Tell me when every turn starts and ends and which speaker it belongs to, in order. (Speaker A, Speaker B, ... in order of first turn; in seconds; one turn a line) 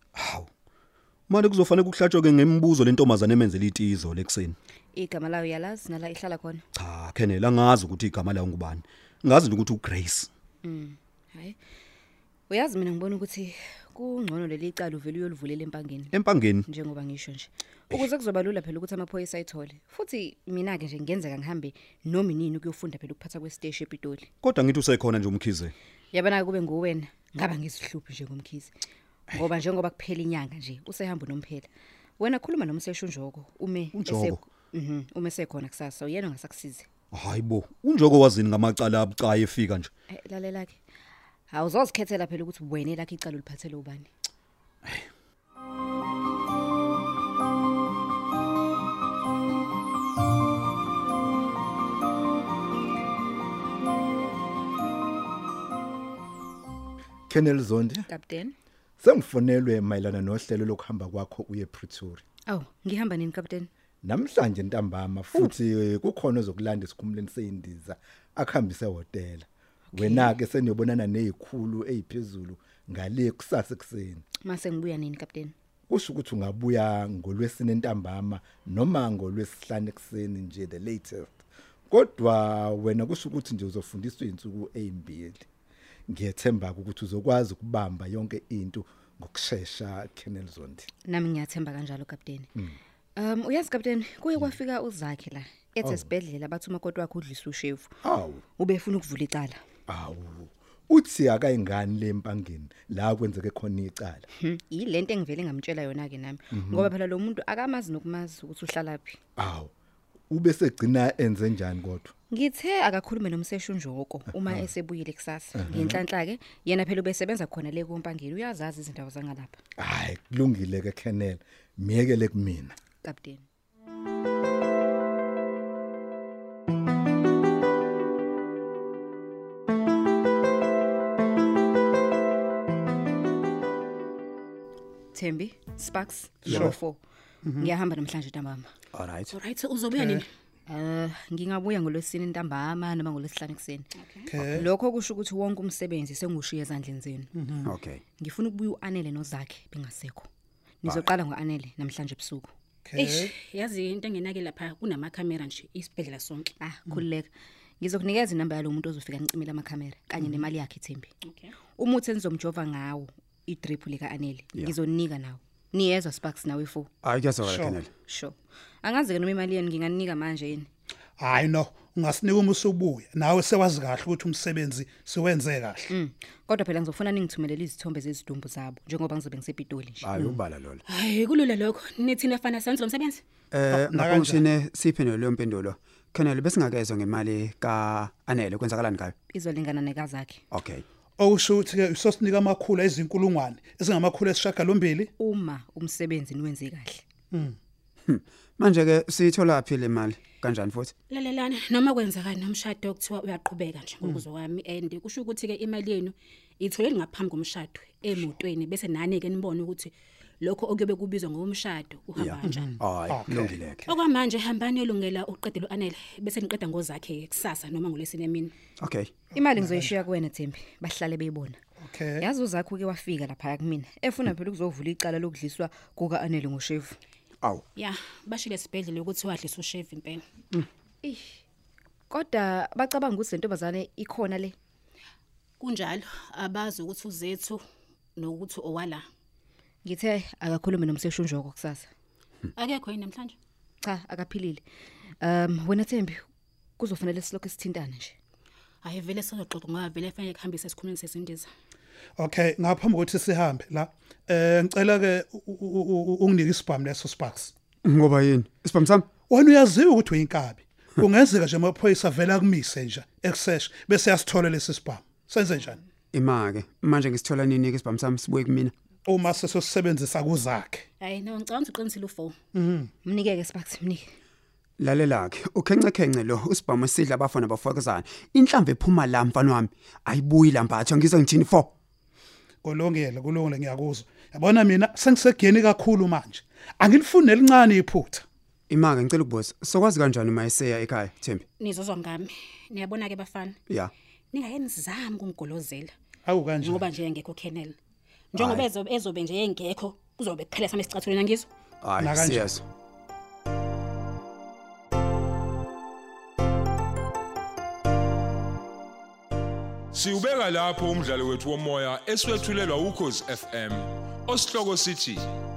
Speaker A: 0.2-0.5
Speaker A: 1.3-4.5
Speaker B: 4.9-6.6
Speaker A: 6.8-10.3
Speaker B: 10.6-11.6
Speaker B: 12.5-16.1
Speaker A: 16.1-16.6
Speaker B: 16.7-24.3
Speaker A: 24.4-25.7
Speaker B: 26.1-28.7
Speaker B: 29.3-31.7
Speaker B: 32.2-36.9
Speaker A: 33.9-34.4
Speaker A: 37.1-39.9
Speaker B: 40.1-40.8
Speaker B: 41.5-44.1
Speaker C: 57.3-58.1
Speaker B: 58.1-58.5
Speaker C: 59.0-62.2
Speaker B: 62.5-63.7
Speaker C: 64.0-74.2
Speaker B: 69.9-70.4
Speaker B: 74.4-75.5
Speaker C: 75.9-85.5
Speaker C: 86.1-90.9
Speaker B: 91.1-92.5
Speaker B: 93.2-98.0
Speaker C: 95.8-96.1
Speaker C: 98.0-98.4
Speaker B: 98.6-99.6
Speaker C: 99.9-104.3
Speaker B: 104.4-109.2
Speaker C: 106.5-106.9
Speaker C: 109.4-109.7
Speaker C: 110.3-112.1
Speaker B: 112.3-119.6
Speaker C: 115.5-116.0
Speaker C: 119.8-122.8
Speaker B: 123.0-123.4
Speaker B: 135.1-137.0
Speaker D: 136.4-136.8
Speaker D: 137.4-137.7
Speaker B: 137.6-138.7
Speaker E: 138.9-139.3
Speaker F: 139.3-140.3
Speaker D: 139.9-140.2
Speaker B: 140.7-143.9
Speaker F: 144.0-144.3
Speaker D: 144.3-144.7
Speaker B: 144.4-147.3
Speaker D: 147.3-147.7
Speaker E: 147.6-148.0
Speaker B: 148.2-150.3
Speaker B: 150.8-152.5
Speaker D: 152.8-153.3
Speaker F: 152.9-156.5
Speaker B: 156.6-157.3
Speaker B: 157.8-161.1
Speaker F: 161.2-161.5
Speaker B: 161.8-166.9
Speaker E: 167.0-167.9
Speaker D: 167.4-167.8
Speaker B: 168.1-170.7
Speaker D: 171.2-175.9
Speaker B: 175.9-180.1
Speaker E: 180.0-180.8
Speaker F: 180.9-183.2
Speaker E: 183.5-189.1
Speaker D: 183.7-184.5
Speaker B: 189.3-190.4
Speaker E: 190.5-190.8
Speaker D: 191.2-195.1
Speaker B: 195.2-197.0
Speaker D: 197.3-197.6
Speaker E: 198.1-200.9
Speaker F: 201.1-212.8
Speaker E: 212.2-213.8
Speaker D: 212.4-213.9
Speaker F: 213.9-218.5
Speaker E: 218.8-219.1
Speaker B: 219.3-221.6
Speaker D: 219.5-220.0
Speaker D: 221.8-222.3
Speaker B: 222.2-227.0
Speaker F: 227.8-230.2
Speaker B: 231.0-231.4
Speaker B: 232.1-234.5
Speaker F: 235.6-237.6
Speaker F: 238.2-239.0
Speaker B: 239.8-241.9
Speaker F: 242.6-243.4
Speaker B: 243.8-244.6
Speaker B: 245.2-246.2
Speaker B: 246.8-248.1
Speaker F: 248.8-251.5
Speaker D: 252.2-257.5
Speaker E: 257.8-259.1
Speaker D: 259.2-265.8
Speaker E: 266.1-268.7
Speaker D: 269.0-270.9
Speaker F: 271.0-272.4
Speaker D: 272.5-272.9
Speaker B: 273.0-274.1
Speaker E: 274.8-281.7
Speaker D: 282.6-288.2
Speaker E: 288.7-291.4
Speaker F: 291.6-293.6
Speaker F: 294.3-295.9
Speaker D: 296.2-296.9
Speaker F: 296.6-297.8
Speaker F: 298.3-301.5
Speaker E: 298.4-298.7
Speaker E: 301.8-302.6
Speaker D: 302.0-302.6
Speaker G: 309.9-315.3